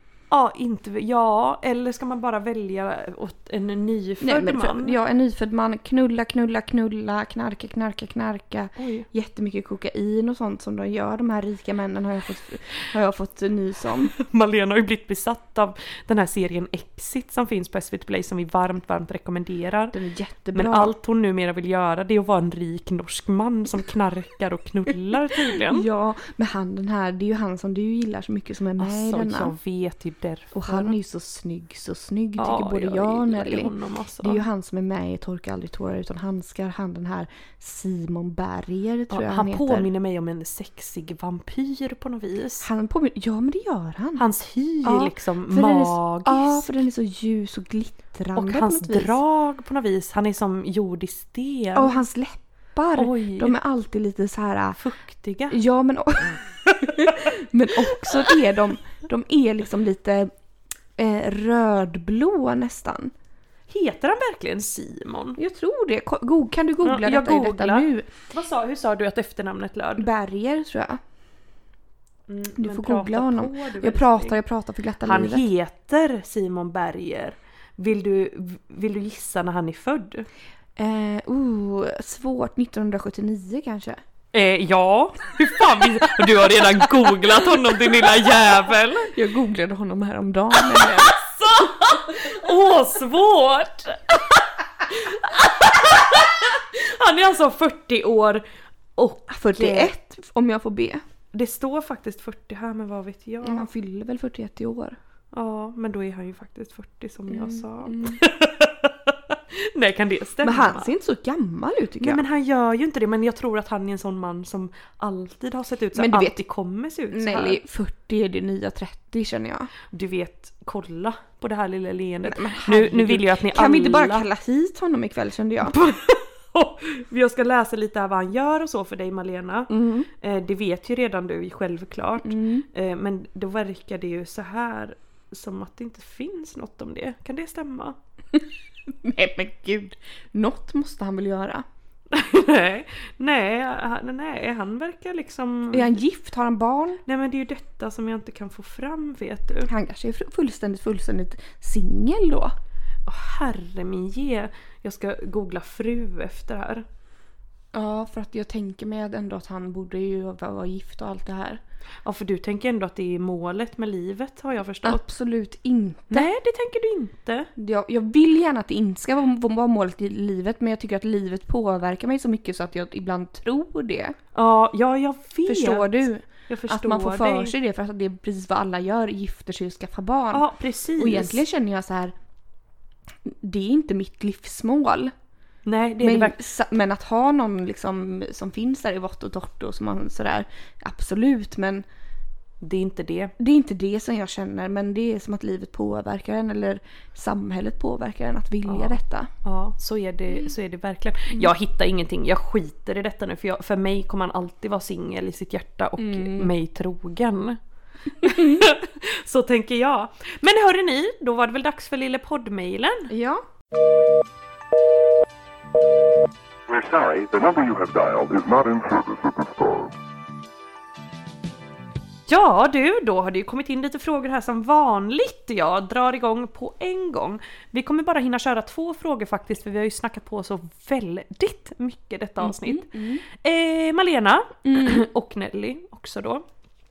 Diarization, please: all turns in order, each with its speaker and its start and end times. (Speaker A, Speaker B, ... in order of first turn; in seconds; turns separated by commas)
Speaker A: 0.3-5.0, Speaker B: 4.2-14.1, Speaker A: 8.8-9.1, Speaker A: 14.1-20.0, Speaker B: 19.9-20.9, Speaker A: 20.5-25.9, Speaker B: 25.7-29.5, Speaker A: 28.8-30.9, Speaker B: 30.5-39.9, Speaker A: 32.4-34.4, Speaker A: 39.1-42.7, Speaker B: 42.6-44.2, Speaker A: 44.2-46.7, Speaker B: 44.8-49.2, Speaker A: 48.4-52.0, Speaker B: 51.8-54.8, Speaker A: 53.0-53.6, Speaker A: 54.8-55.6, Speaker B: 55.5-60.3, Speaker B: 61.0-63.1, Speaker A: 63.7-65.4, Speaker B: 65.4-68.1, Speaker A: 66.8-70.1, Speaker B: 70.0-71.0, Speaker A: 72.3-74.4, Speaker B: 72.6-75.5, Speaker A: 75.0-80.3, Speaker B: 80.8-84.0, Speaker A: 84.3-89.1, Speaker B: 89.1-91.2, Speaker A: 90.5-98.5, Speaker A: 99.0-99.9, Speaker B: 99.3-101.0, Speaker A: 101.3-103.7, Speaker B: 103.4-105.0, Speaker A: 105.3-110.9, Speaker B: 107.3-108.2, Speaker B: 110.4-112.2, Speaker A: 112.0-117.6, Speaker B: 116.0-116.4, Speaker B: 117.1-119.7, Speaker A: 119.9-124.3, Speaker B: 122.2-125.8, Speaker A: 125.6-138.0, Speaker B: 129.7-130.1, Speaker B: 132.2-132.7, Speaker B: 139.0-141.7, Speaker A: 142.1-145.9, Speaker B: 145.7-147.0, Speaker A: 147.1-149.7, Speaker B: 149.7-152.5, Speaker A: 153.1-156.8, Speaker B: 157.7-161.6, Speaker A: 162.0-165.0, Speaker B: 164.8-166.3, Speaker A: 166.1-167.5, Speaker B: 167.6-174.2, Speaker A: 174.3-177.6, Speaker B: 175.5-180.4, Speaker A: 180.3-181.4, Speaker B: 181.0-182.1, Speaker B: 183.3-185.1, Speaker A: 185.7-186.4, Speaker B: 186.0-191.8, Speaker A: 192.6-193.3, Speaker B: 193.4-199.3, Speaker A: 198.7-207.6, Speaker B: 206.0-206.5, Speaker A: 208.2-213.1, Speaker B: 208.2-208.6, Speaker B: 213.1-213.4, Speaker C: 216.7-219.9, Speaker A: 222.3-236.5, Speaker B: 232.4-233.2, Speaker B: 234.7-235.0